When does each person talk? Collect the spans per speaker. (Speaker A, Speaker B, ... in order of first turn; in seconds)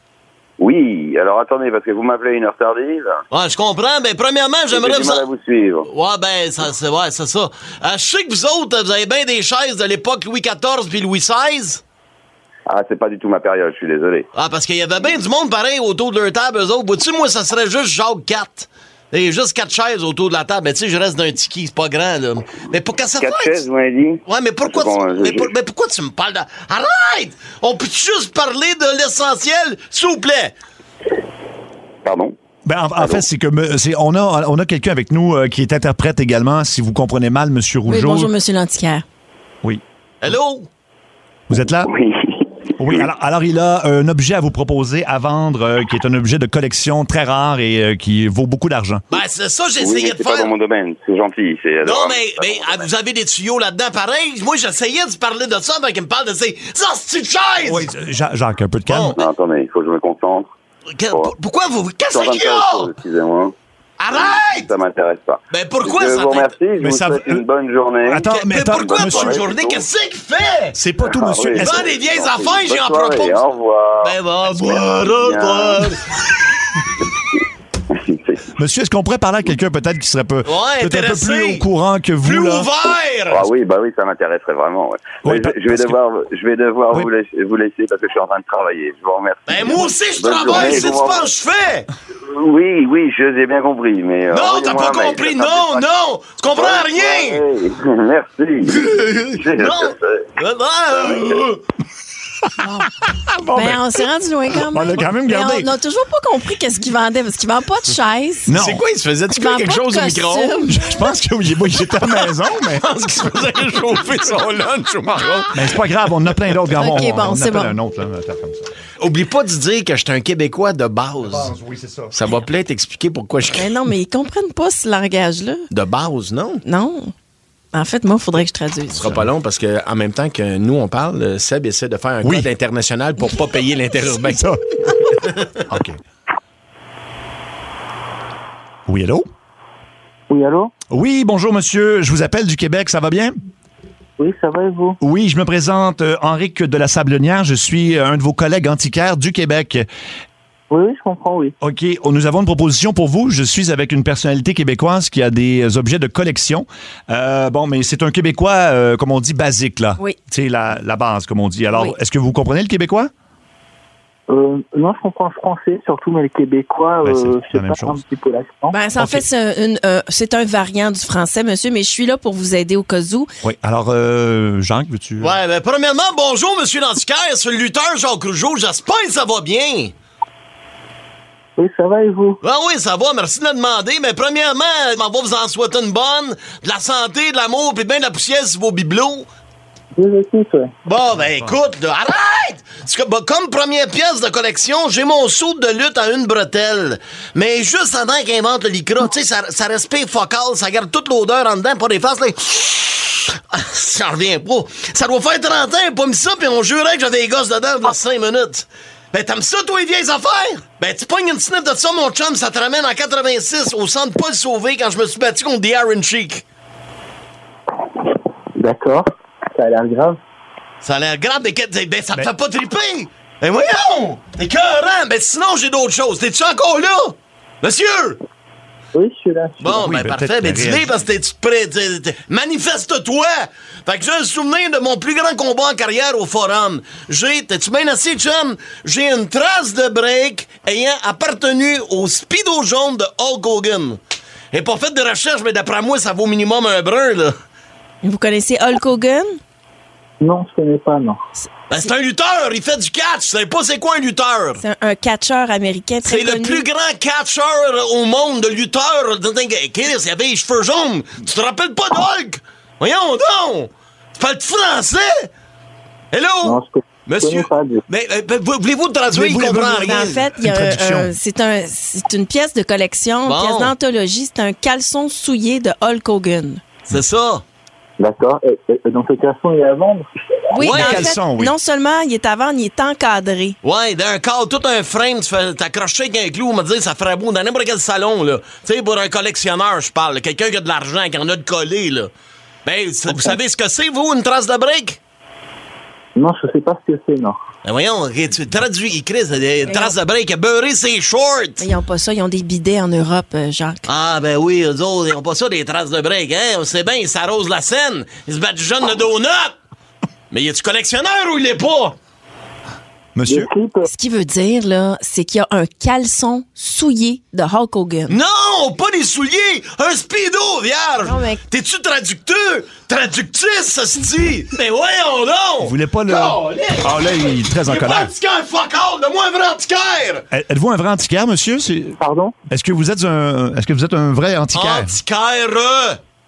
Speaker A: 0.6-3.2, 4.7-5.9, 12.7-14.3, 23.2-25.5, 32.0-32.3, 41.5-43.1, 49.8-52.9, 59.1-60.5, 62.1-63.5, 64.1-69.9, 71.0-75.9, 77.9-78.5, 83.3-91.3, 92.2-95.9, 96.5-100.3, 100.9-101.4
Speaker B: 3.3-5.2, 5.9-11.8, 14.3-23.7, 24.3-30.5, 40.2-40.7, 49.1-50.5, 51.8-57.9, 58.9-59.2, 61.0-62.9, 64.0-64.8, 65.5-66.5, 68.3-70.8, 71.6-73.5, 74.0-76.0, 80.5-81.7, 82.2-83.5, 89.5-91.9, 94.3-97.5, 98.7-101.6, 108.5-110.7, 112.0-115.7, 119.0-121.5, 122.1-123.8, 125.7-126.6, 128.9-134.5, 135.2-135.6, 175.2-179.9, 182.4-189.3, 190.8-216.4, 220.8-228.2, 229.6-244.0, 244.5-247.3, 251.7-254.6, 256.0-265.3, 266.1-270.2, 273.2-273.7, 276.9-277.4, 280.6-281.1, 283.6-292.1, 292.7-295.0, 297.6-301.6, 303.9-309.6, 310.3-312.0, 318.1-330.3, 334.5-336.0
Speaker C: 32.6-38.3, 41.5-41.9, 42.8-49.0, 57.6-59.2, 66.8-67.4, 68.0-69.4, 70.7-71.9, 78.5-82.7, 85.2-86.0, 102.6-103.8, 104.6-105.7, 108.5-108.8, 110.7-112.8, 115.5-118.7, 121.2-122.2, 134.2-134.6, 135.7-136.0, 138.9-139.3, 140.9-143.4, 145.0-149.9, 151.6-163.1, 167.0-168.0, 169.0-169.2, 173.4-175.4, 191.2-191.6, 229.7-231.0, 269.1-269.8, 270.4-271.1, 280.6-281.5, 313.1-313.5, 325.6-328.1, 330.3-332.0, 332.5-335.0
Speaker D: 37.9-39.0, 103.5-108.5, 109.3-110.8, 116.7-117.8, 123.5-125.7, 126.6-127.1, 127.7-129.1, 168.7-173.3, 248.0-249.4, 254.6-256.6, 269.7-276.6, 280.5-283.6, 299.7-299.9, 301.6-303.9, 313.9-318.2, 321.0-321.4
Speaker E: 140.3-140.7, 144.2-145.0, 150.7-151.6, 164.3-168.8, 181.6-182.4, 189.9-190.7, 218.6-220.2, 228.9-229.8, 250.2-251.2, 266.4-267.8, 278.0-280.1, 296.1-297.4, 313.3-313.9, 332.0-332.4